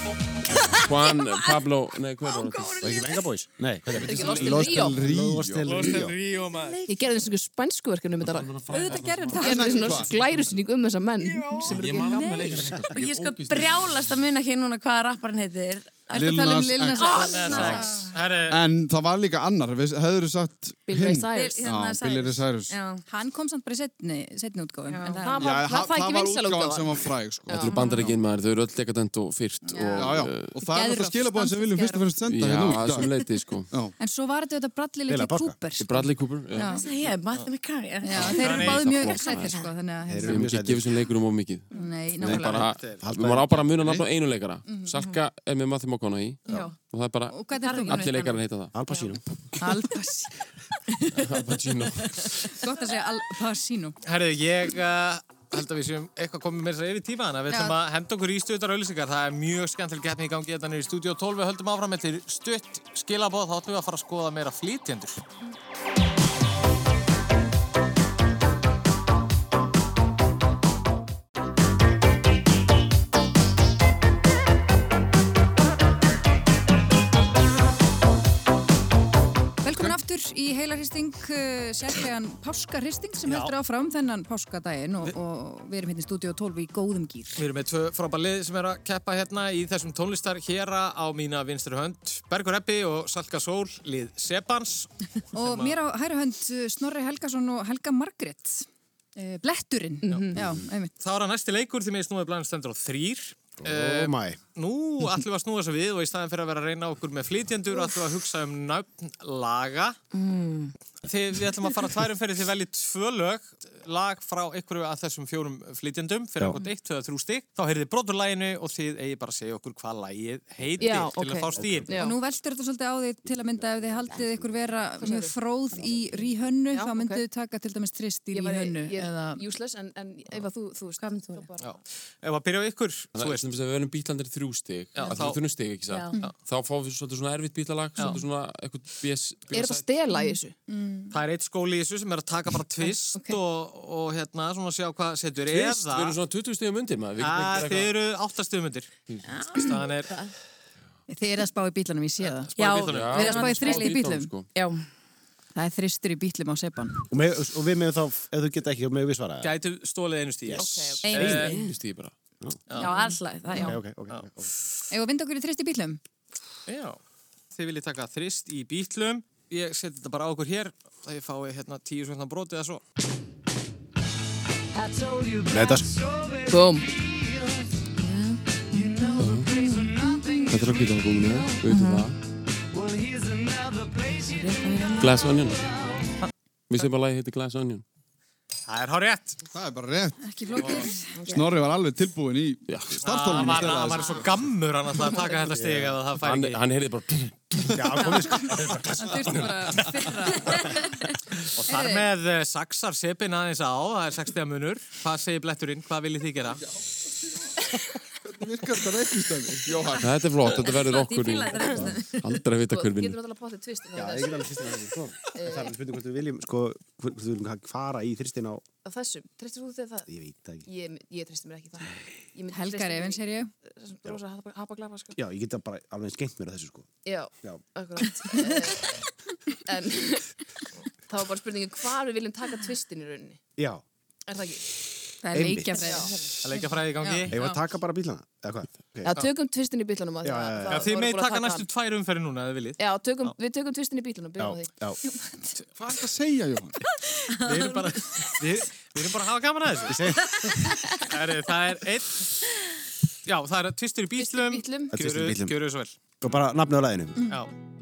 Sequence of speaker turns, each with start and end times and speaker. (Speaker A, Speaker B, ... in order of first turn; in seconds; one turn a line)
Speaker A: 0.8-2.9
Speaker B: 2.7-3.0
Speaker C: 2.8-6.2
Speaker D: 4.0-5.0
Speaker E: 4.2-5.9
Speaker A: 4.2-4.5
Speaker F: 5.7-6.8
Speaker B: 6.6-6.9
Speaker D: 6.9-8.6
Speaker A: 8.2-10.3
Speaker G: 8.7-9.9
Speaker D: 9.4-12.8
Speaker E: 9.4-10.1
Speaker A: 11.6-14.1
Speaker B: 12.1-16.1
Speaker E: 16.1-17.9
Speaker G: 16.1-18.1
Speaker B: 17.0-18.1
Speaker F: 17.1-18.6
Speaker E: 18.5-22.8
Speaker D: 20.9-21.7
Speaker B: 21.3-23.0
Speaker G: 23.1-25.3
Speaker B: 24.9-25.5
Speaker D: 25.2-27.7
Speaker E: 25.4-27.7
Speaker A: 27.6-30.6
Speaker B: 27.7-28.1
Speaker G: 29.7-32.1
Speaker E: 29.9-33.1
Speaker A: 32.3-33.7
Speaker G: 34.0-36.9
Speaker C: 35.1-35.6
Speaker A: 35.8-36.8
Speaker B: 36.6-39.7
Speaker G: 38.0-40.5
Speaker A: 38.1-39.6
Speaker F: 38.4-38.8
Speaker C: 40.1-40.9
Speaker A: 40.2-48.8
Speaker G: 41.7-42.7
Speaker C: 42.2-43.8
Speaker E: 43.8-44.1
Speaker B: 46.5-46.8
Speaker G: 47.3-48.2
Speaker B: 47.5-49.2
Speaker C: 48.7-49.2
Speaker G: 49.6-50.4
Speaker G: 50.9-51.3
Speaker A: 51.2-52.4
Speaker G: 52.2-54.0
Speaker F: 54.0-65.2
Speaker G: 57.5-57.8
Speaker G: 79.6-87.4
Speaker E: 79.7-80.0
Speaker F: 83.3-83.5
Speaker F: 87.4-95.8
Speaker G: 95.3-100.9
Speaker D: 100.0-100.4
Speaker F: 101.0-110.0
Speaker C: 103.6-104.4
Speaker B: 110.1-110.7
Speaker F: 111.0-121.9
Speaker C: 120.6-121.9
Speaker D: 120.8-122.2
Speaker G: 121.9-129.4
Speaker C: 123.3-124.7
Speaker D: 125.0-125.3
Speaker C: 125.7-126.3
Speaker D: 126.7-127.2
Speaker D: 128.3-131.8
Speaker B: 131.0-131.5
Speaker F: 131.6-133.5
Speaker A: 133.2-139.9
Speaker F: 134.9-135.4
Speaker B: 135.9-136.2
Speaker D: 139.5-140.6
Speaker G: 140.1-141.2
Speaker F: 141.1-146.2
Speaker G: 142.8-143.4
Speaker A: 145.5-147.9
Speaker F: 147.2-148.9
Speaker B: 149.2-150.3
Speaker F: 149.6-150.1
Speaker G: 151.1-152.5
Speaker F: 152.2-153.3
Speaker B: 152.6-154.0
Speaker A: 152.8-154.5
Speaker G: 153.1-154.3
Speaker B: 154.5-154.9
Speaker G: 155.6-157.0
Speaker C: 157.1-159.5
Speaker F: 159.4-161.6
Speaker C: 160.4-161.4
Speaker D: 160.6-161.2
Speaker B: 161.0-161.7
Speaker A: 161.2-162.1
Speaker F: 162.7-163.1
Speaker B: 162.7-163.8
Speaker C: 163.6-164.5
Speaker G: 164.9-166.0
Speaker F: 166.7-167.0
Speaker F: 167.5-172.8
Speaker C: 175.5-175.9
Speaker D: 176.5-176.9
Speaker B: 178.0-179.6
Speaker A: 179.2-179.5
Speaker A: 180.5-182.2
Speaker B: 181.6-182.1
Speaker B: 184.2-185.2
Speaker A: 185.0-185.7
Speaker F: 186.2-186.9
Speaker A: 186.7-187.8
Speaker F: 188.7-189.4
Speaker E: 189.5-194.5
Speaker G: 190.2-191.2
Speaker F: 190.6-190.9
Speaker A: 192.7-193.5
Speaker F: 193.0-196.6
Speaker D: 195.0-195.4
Speaker C: 195.5-195.9
Speaker A: 196.2-198.1
Speaker C: 197.7-199.5
Speaker G: 198.0-201.0
Speaker F: 201.6-206.6
Speaker G: 201.6-202.1
Speaker E: 208.2-210.5
Speaker A: 210.0-213.2
Speaker B: 210.6-212.3
Speaker D: 212.7-214.5
Speaker C: 213.9-218.6
Speaker D: 215.3-215.8
Speaker D: 218.8-220.1
Speaker C: 220.1-220.7
Speaker D: 220.7-225.2
Speaker G: 222.5-223.5
Speaker C: 225.2-226.9
Speaker D: 227.1-229.0
Speaker D: 229.6-230.4
Speaker D: 231.1-233.4
Speaker C: 233.6-233.8
Speaker D: 234.3-234.7
Speaker G: 235.2-236.1
Speaker C: 235.3-235.8
Speaker D: 235.8-236.3
Speaker F: 236.4-237.6
Speaker G: 237.0-237.3
Speaker C: 237.3-239.2
Speaker D: 239.1-241.7
Speaker C: 240.2-241.0
Speaker F: 240.7-243.3
Speaker D: 242.8-244.7
Speaker C: 244.4-245.0
Speaker E: 245.8-246.7
Speaker B: 247.3-248.0
Speaker F: 247.4-250.0
Speaker C: 249.9-250.5
Speaker B: 250.3-251.0
Speaker F: 251.0-252.3
Speaker F: 253.3-256.0
Speaker D: 254.2-254.9
Speaker C: 254.9-255.6
Speaker C: 256.2-257.4